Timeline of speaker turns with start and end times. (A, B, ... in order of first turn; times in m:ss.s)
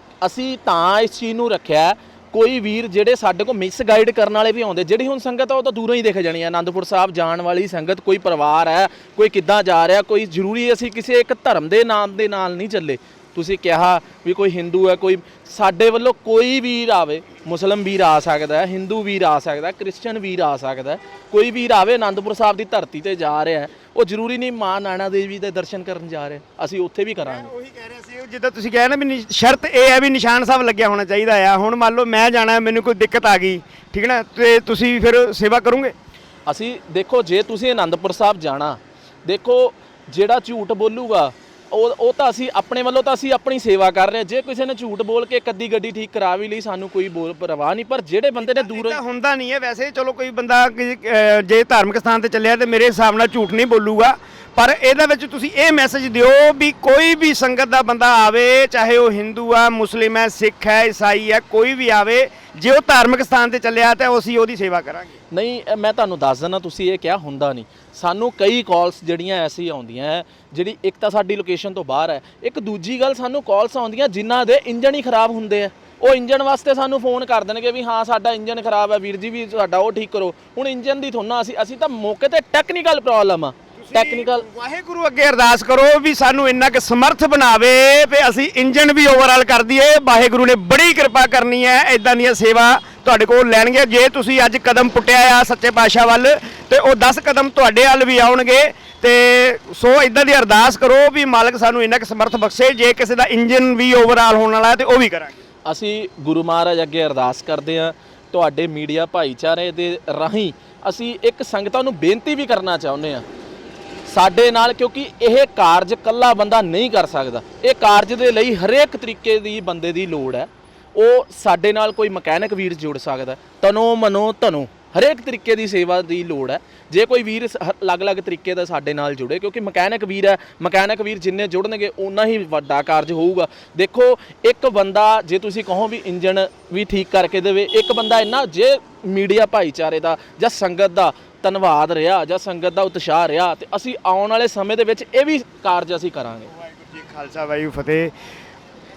0:00.2-0:27.5 A
0:27.2-0:35.9 B
0:36.5-0:49.0 A
0:48.4-1:05.2 B
1:05.3-1:24.4 A
1:23.8-1:45.4 B
1:45.7-1:53.2 A
1:54.1-2:26.5 A
2:26.6-2:28.1 B